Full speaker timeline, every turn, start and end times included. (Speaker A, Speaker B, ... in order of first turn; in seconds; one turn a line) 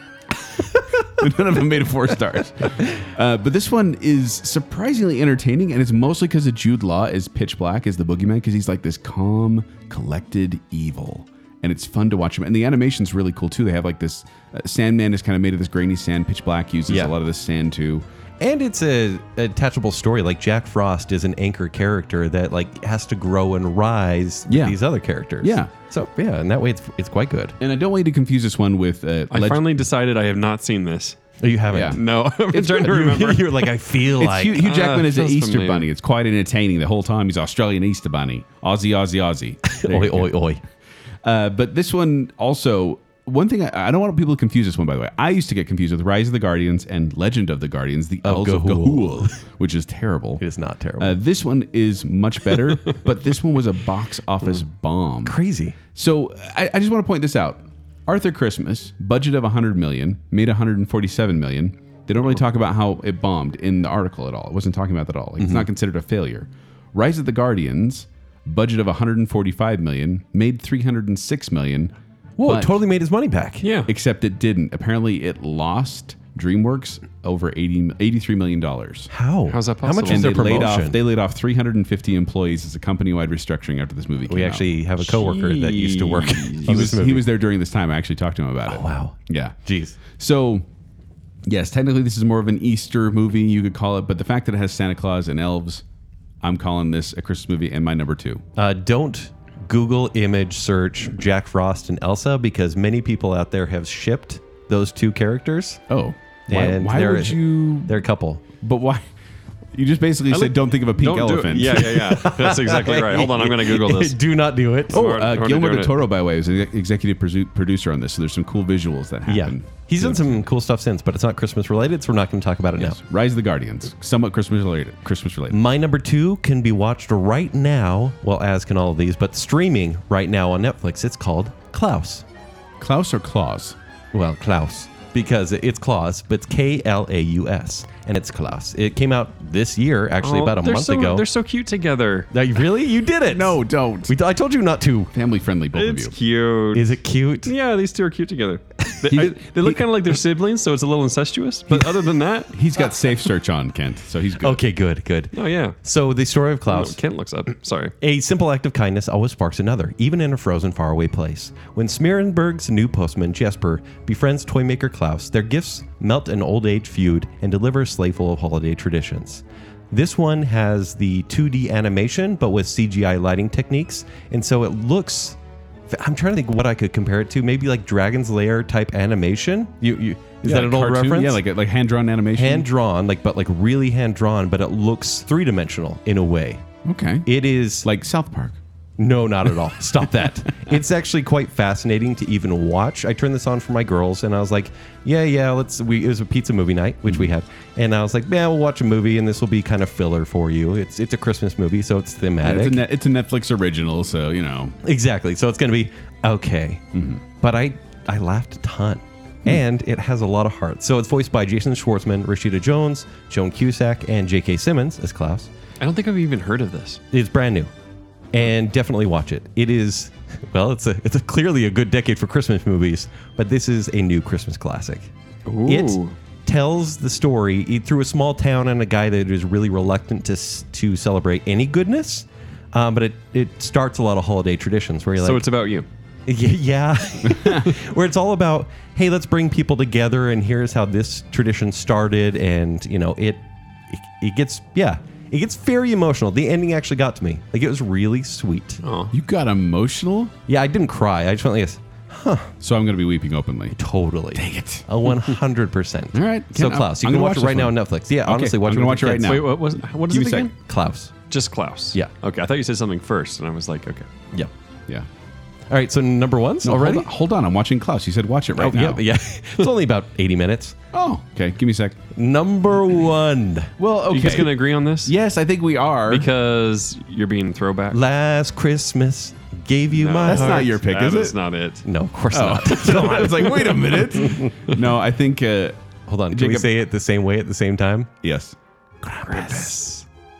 Speaker A: 0.5-18.0
Speaker B: 16.9-17.1
Speaker B: 18.4-27.6
Speaker A: 24.5-24.8
Speaker A: 25.4-25.7
Speaker A: 27.6-29.8
Speaker C: 29.3-31.2
Speaker B: 31.4-32.0
Speaker A: 31.7-33.0
Speaker C: 31.9-33.7
Speaker B: 32.5-34.6
Speaker A: 34.2-40.3
Speaker C: 34.6-35.9
Speaker B: 39.7-40.6
Speaker A: 41.2-50.4
Speaker B: 48.2-49.3
Speaker B: 50.4-51.2
Speaker A: 51.0-55.4
Speaker B: 55.2-55.8
Speaker A: 55.9-71.9
Speaker B: 65.4-65.7
Speaker B: 72.4-73.7
Speaker A: 72.4-72.8
Speaker C: 73.6-73.9
Speaker A: 73.9-79.1
Speaker B: 79.1-81.0
Speaker C: 79.5-80.7
Speaker A: 80.0-84.7
Speaker B: 84.3-87.3
Speaker C: 85.1-86.8
Speaker A: 86.6-89.5
Speaker B: 88.7-90.0
Speaker A: 90.1-90.6
Speaker A: 91.5-95.8
Speaker A: 96.4-98.4
Speaker B: 98.5-105.8
Speaker A: 105.9-108.0
Speaker B: 106.5-108.4
Speaker A: 108.6-109.0
Speaker A: 109.7-112.0
Speaker C: 110.3-114.2
Speaker B: 111.7-115.0
Speaker C: 114.9-116.0
Speaker A: 114.9-120.4
Speaker B: 119.3-123.0
Speaker A: 122.8-125.6
Speaker B: 125.5-132.2
Speaker A: 132.8-133.8
Speaker B: 134.1-141.2
Speaker C: 140.2-142.3
Speaker B: 142.3-145.1
Speaker A: 143.3-144.2
Speaker A: 145.1-146.1
Speaker C: 145.7-152.5
Speaker B: 146.7-147.5
Speaker A: 149.1-149.7
Speaker A: 152.5-154.6
Speaker B: 154.4-157.0
Speaker C: 155.3-155.8
Speaker C: 156.7-157.9
Speaker B: 158.0-175.4
Speaker B: 175.9-181.4
Speaker A: 180.4-182.7
Speaker B: 182.3-186.6
Speaker A: 186.8-187.3
Speaker B: 187.2-187.9
Speaker A: 187.8-188.6
Speaker B: 189.0-202.8
Speaker A: 202.4-204.8
Speaker B: 204.8-206.8
Speaker A: 206.9-207.2
Speaker B: 207.4-215.5
Speaker C: 215.8-217.0
Speaker B: 217.1-217.7
Speaker B: 218.3-225.1
Speaker C: 225.5-226.1
Speaker B: 225.7-235.4
Speaker C: 235.2-235.9
Speaker B: 236.3-248.8
Speaker A: 237.2-237.7
Speaker C: 248.8-249.1
Speaker A: 249.1-250.3
Speaker B: 250.5-252.5
Speaker A: 252.6-253.8
Speaker B: 253.7-259.4
Speaker A: 254.3-255.1
Speaker A: 256.1-260.5
Speaker C: 259.2-260.5
Speaker B: 260.6-261.1
Speaker C: 261.3-264.1
Speaker B: 265.7-267.1
Speaker A: 266.6-269.0
Speaker B: 268.6-270.8
Speaker A: 270.9-272.0
Speaker B: 272.1-273.7
Speaker A: 273.8-276.3
Speaker C: 274.1-275.1
Speaker C: 276.1-278.0
Speaker B: 277.9-280.7
Speaker C: 279.9-281.8
Speaker A: 280.2-281.4
Speaker B: 281.8-284.5
Speaker A: 282.3-285.8
Speaker B: 286.1-288.1
Speaker A: 286.3-286.7
Speaker A: 288.2-289.7
Speaker B: 289.1-290.0
Speaker C: 289.3-289.9